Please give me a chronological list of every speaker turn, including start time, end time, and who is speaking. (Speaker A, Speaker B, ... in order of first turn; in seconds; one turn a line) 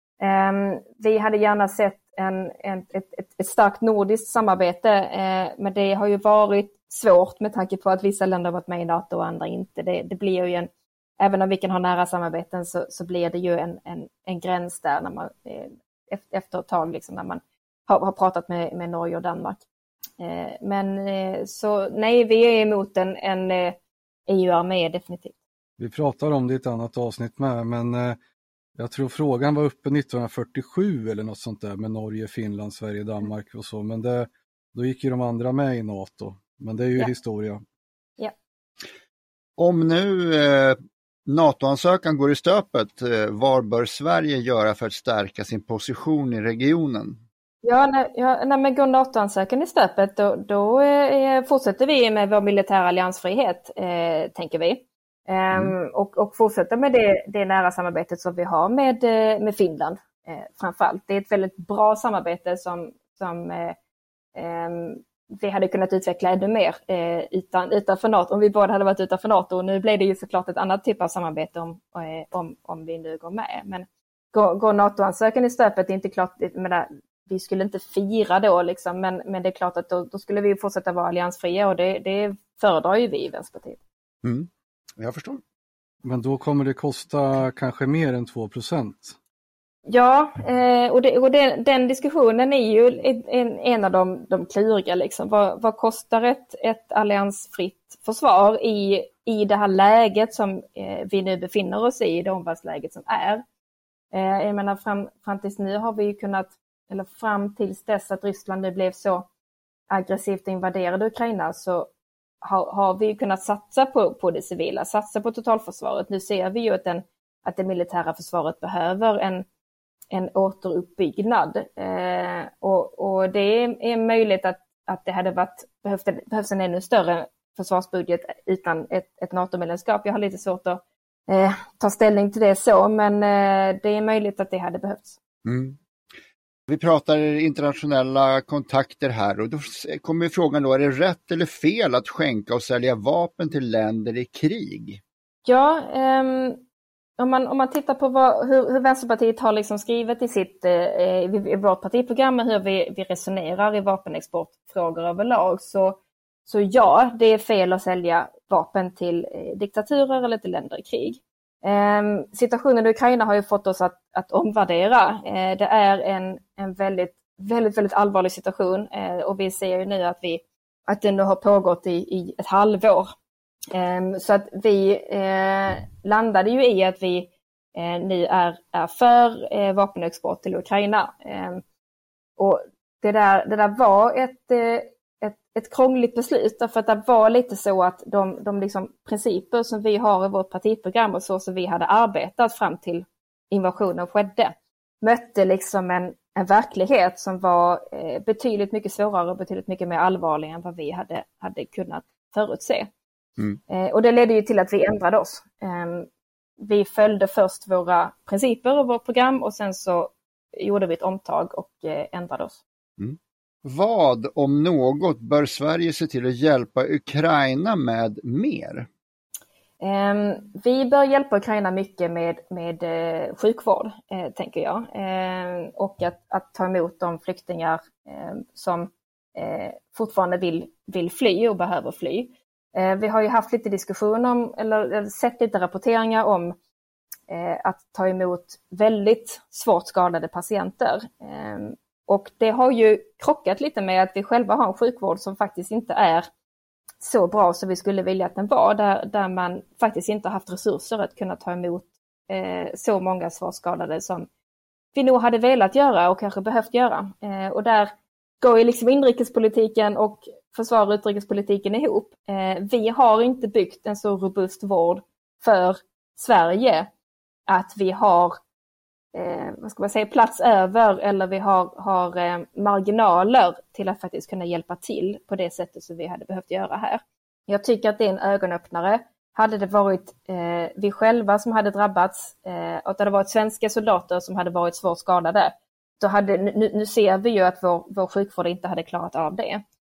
Speaker A: 0.2-19.6
Speaker A: 20.2-23.8
Speaker A: 24.3-25.4
Speaker B: 25.8-28.2
Speaker B: 28.8-37.6
Speaker C: 39.6-47.2
Speaker A: 47.6-63.8
Speaker A: 64.3-83.8
Speaker C: 84.2-85.4
Speaker B: 86.0-89.2
Speaker A: 89.9-103.4
Speaker A: 104.1-109.2
Speaker A: 109.9-111.9
Speaker A: 112.4-119.4
Speaker A: 120.1-135.2
Speaker C: 135.4-135.8
Speaker C: 136.7-145.0
Speaker A: 145.4-146.6
Speaker A: 147.2-173.1
Speaker A: 173.7-181.6
Speaker A: 182.4-202.9
Speaker A: 203.7-206.1
Speaker A: 206.6-212.6
Speaker C: 213.0-218.9
Speaker A: 219.8-236.5
Speaker A: 237.3-246.3
Speaker A: 247.0-254.3
Speaker A: 254.9-266.9
Speaker A: 267.5-268.4
Speaker A: 269.1-289.6